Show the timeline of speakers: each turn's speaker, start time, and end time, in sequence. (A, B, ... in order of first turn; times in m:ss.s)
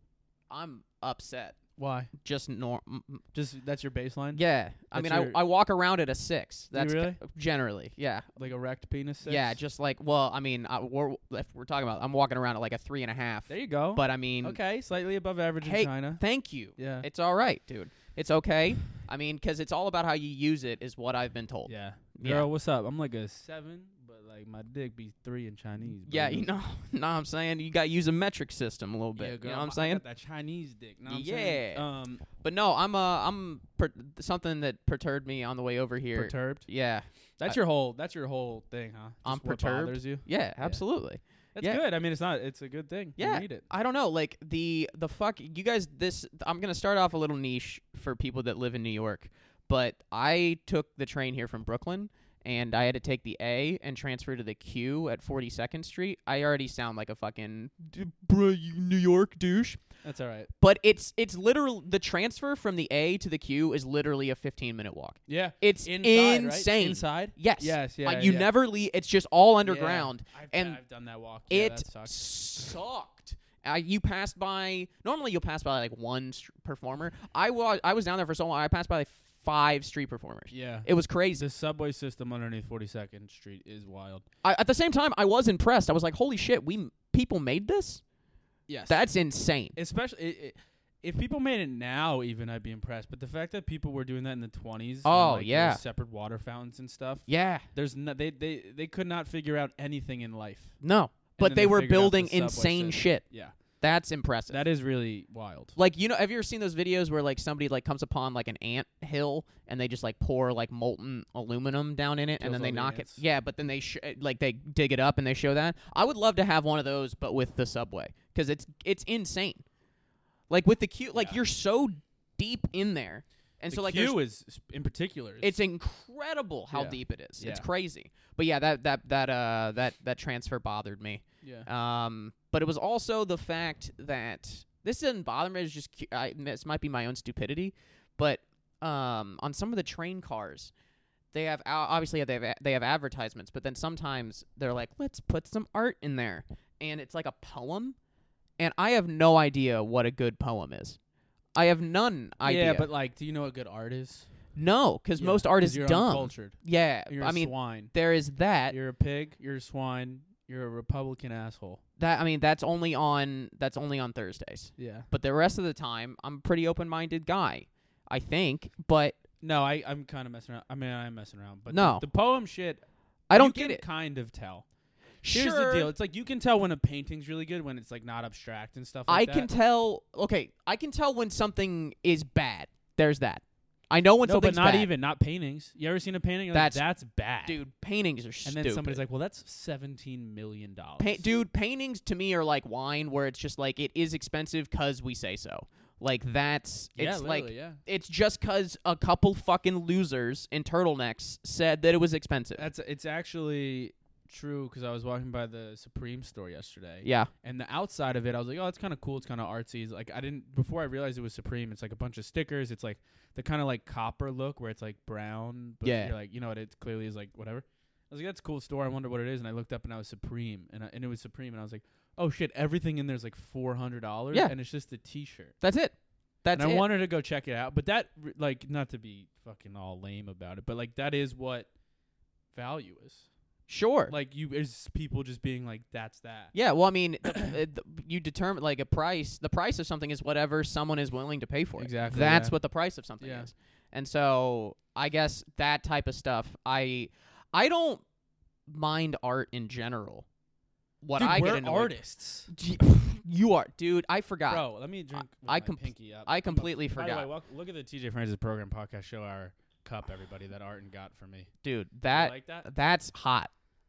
0:00.5-0:01.6 A
0:01.8-0:02.1 B
0:02.2-0:03.2 A
0:03.3-0:04.4 B
0:04.3-0:08.3 A
0:04.9-0:05.4 B
0:06.7-0:07.2 B
0:08.4-0:09.6 B
0:09.2-0:14.6 A
0:13.5-0:16.2 B
0:15.6-0:22.4 A
0:16.8-0:17.0 B
0:21.7-0:26.5 B
0:26.0-0:30.0 A
0:29.2-0:32.2 B
0:31.1-0:31.8 A
0:32.4-0:37.6 A
0:36.1-0:36.7 B
0:37.4-0:40.8 B
0:39.2-0:41.8 A
0:41.5-0:43.6 B
0:43.2-0:59.8 A
1:00.0-1:00.5 B
1:00.6-1:10.8 A
1:05.3-1:08.5 B
1:09.6-1:12.3 B
1:11.5-1:21.4 A
1:20.5-1:24.2 B
1:24.4-1:28.0 A
1:28.7-1:29.0 B
1:28.9-1:29.8 A
1:29.7-1:40.7 B
1:35.0-1:35.8 A
1:37.3-1:37.7 A
1:40.8-1:43.2 A
1:41.4-1:43.5 B
1:43.8-1:44.6 A
1:44.5-1:45.8 B
1:45.8-1:59.6 A
1:52.4-1:53.2 B
2:00.5-2:04.2 A
2:01.1-2:01.4 B
2:03.7-2:05.6 B
2:05.4-2:20.7 A
2:06.7-2:07.7 B
2:11.4-2:11.7 B
2:21.3-2:28.0 A
2:28.6-2:31.0 A
2:31.5-2:32.9 A
2:32.4-2:34.3 B
2:34.5-2:38.8 A
2:35.2-2:37.9 B
2:38.7-2:41.8 B
2:42.0-2:49.2 A
2:44.8-2:45.1 B
2:49.4-2:54.6 B
2:51.7-2:52.0 A
2:53.3-2:53.8 A
2:55.2-2:55.9 A
2:55.2-2:59.5 B
2:59.1-3:04.9 A
3:04.2-3:07.6 B
3:06.5-3:06.8 A
3:07.4-3:09.0 A
3:08.4-3:11.2 B
3:11.0-3:22.7 A
3:17.0-3:17.8 B
3:22.6-3:45.5 B
3:27.0-3:27.3 A
3:35.8-3:36.1 A
3:45.6-3:46.8 A
3:46.5-3:51.7 B
3:52.5-3:53.2 B
3:53.7-3:54.1 A
3:54.1-3:56.5 B
3:56.5-4:08.0 A
3:57.3-3:57.5 B
4:01.8-4:02.5 B
4:03.2-4:03.5 B
4:08.7-4:10.2 A
4:11.0-4:11.9 A
4:11.2-4:12.5 B
4:12.5-4:14.6 A
4:14.5-4:21.5 B
4:15.3-4:17.3 A
4:21.6-4:23.5 A
4:22.1-4:22.7 B